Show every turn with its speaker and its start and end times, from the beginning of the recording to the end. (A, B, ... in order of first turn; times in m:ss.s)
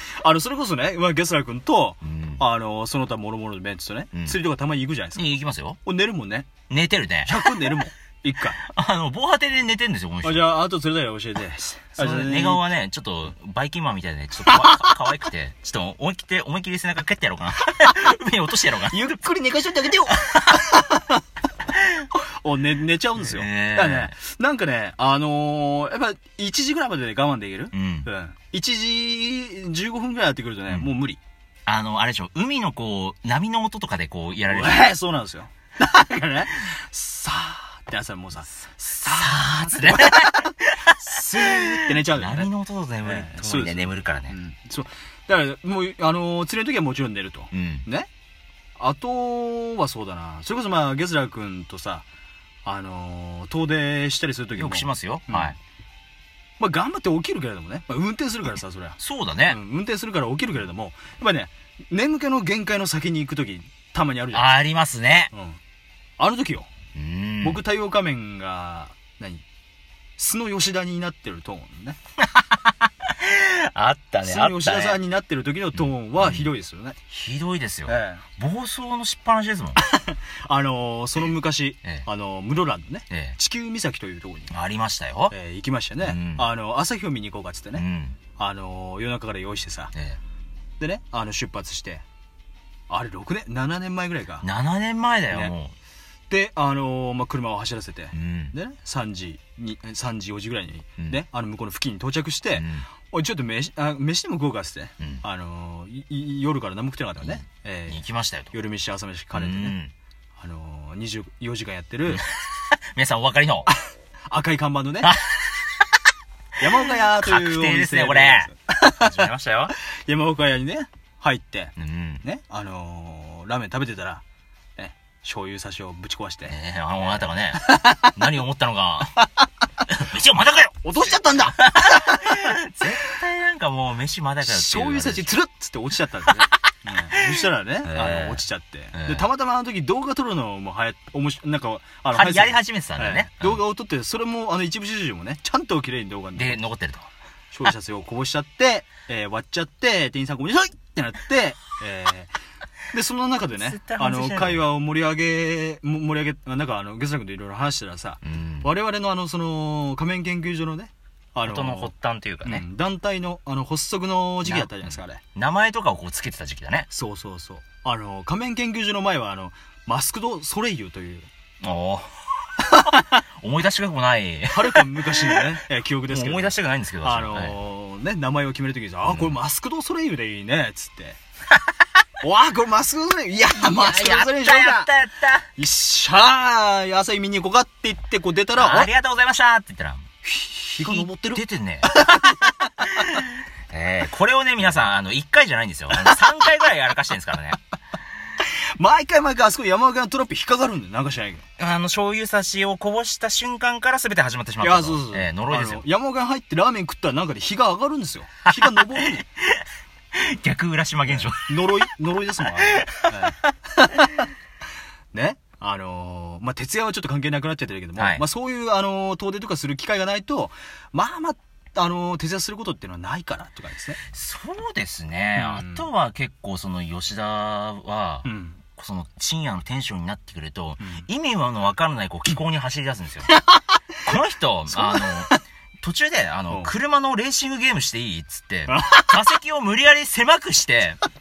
0:00.2-0:05.3 A
0:02.0-0:02.4 B
0:04.1-0:04.4 B
0:05.1-0:05.8 B
0:05.8-0:06.5 A
0:06.7-0:07.8 B
0:07.2-0:08.6 A
0:08.6-0:10.5 B
0:10.2-0:12.6 A
0:12.0-0:19.0 B
0:14.4-0:14.9 A
0:18.9-0:21.2 A
0:22.0-0:31.2 A
0:23.2-0:24.1 B
0:27.7-0:28.1 B
0:31.6-0:34.9 B
0:34.5-0:42.5 A
0:39.0-0:44.4 B
0:43.0-0:48.1 A
0:47.5-0:47.9 B
0:48.8-0:52.0 A
0:52.6-0:55.6 A
0:54.6-0:55.6 B
0:56.6-1:04.6 A
0:59.0-0:59.6 B
1:04.3-1:05.3 B
1:05.3-1:05.6 A
1:06.2-1:06.7 A
1:06.9-1:07.6 B
1:07.4-1:09.4 A
1:10.2-1:12.0 A
1:12.3-1:15.0 B
1:14.2-1:17.0 A
1:15.8-1:16.5 B
1:17.1-1:19.8 B
1:17.9-1:18.2 A
1:19.8-1:24.5 A
1:23.1-1:23.4 B
1:24.5-1:25.4 B
1:25.3-1:27.8 A
1:26.0-1:26.5 B
1:27.8-1:28.2 B
1:28.4-1:29.9 A
1:29.9-1:30.2 B
1:30.8-1:32.0 A
1:32.9-1:34.5 A
1:34.4-1:35.7 B
1:35.3-1:35.5 A
1:36.3-1:49.8 A
1:38.1-1:38.6 B
1:42.5-1:42.9 B
1:47.2-1:48.5 B
1:49.3-1:49.9 B
1:50.4-1:52.2 A
1:52.9-1:53.7 B
1:54.3-1:55.2 A
1:55.0-1:55.5 B
1:56.6-1:59.2 A
1:56.8-1:59.8 B
2:00.1-2:04.2 A
2:01.8-2:02.2 B
2:04.8-2:08.2 A
2:06.5-2:09.3 B
2:09.9-2:15.3 B
2:10.8-2:13.1 A
2:14.4-2:26.6 A
2:17.8-2:18.4 B
2:18.9-2:19.3 B
2:22.1-2:23.6 B
2:26.4-2:27.1 B
2:27.5-2:32.3 A
2:32.9-2:41.9 A
2:33.6-2:34.6 B
2:38.2-2:38.7 B
2:41.4-2:42.6 B
2:42.4-2:45.2 A
2:44.4-2:46.9 B
2:46.9-2:51.3 A
2:51.6-2:55.5 B
2:52.6-2:53.2 A
2:54.5-3:01.2 A
2:56.1-2:57.6 B
2:59.1-2:59.4 B
3:02.2-3:04.9 A
3:03.5-3:05.5 B
3:05.6-3:08.9 A
3:08.6-3:10.0 B
3:10.2-3:13.2 A
3:10.8-3:12.0 B
3:13.0-3:17.6 B
3:15.9-3:16.2 A
3:18.8-3:21.4 A
3:21.6-3:25.8 B
3:24.6-3:29.2 A
3:28.5-3:29.6 B
3:30.1-3:31.5 B
3:31.1-3:34.2 A
3:32.8-3:33.3 B
3:35.1-3:44.0 A
3:38.0-3:38.2 B
3:44.1-3:53.3 B
3:45.4-3:45.9 A
3:48.2-3:48.6 A
3:50.8-3:51.0 A
3:54.0-4:01.0 B
3:54.7-3:55.4 A
3:58.7-3:59.2 A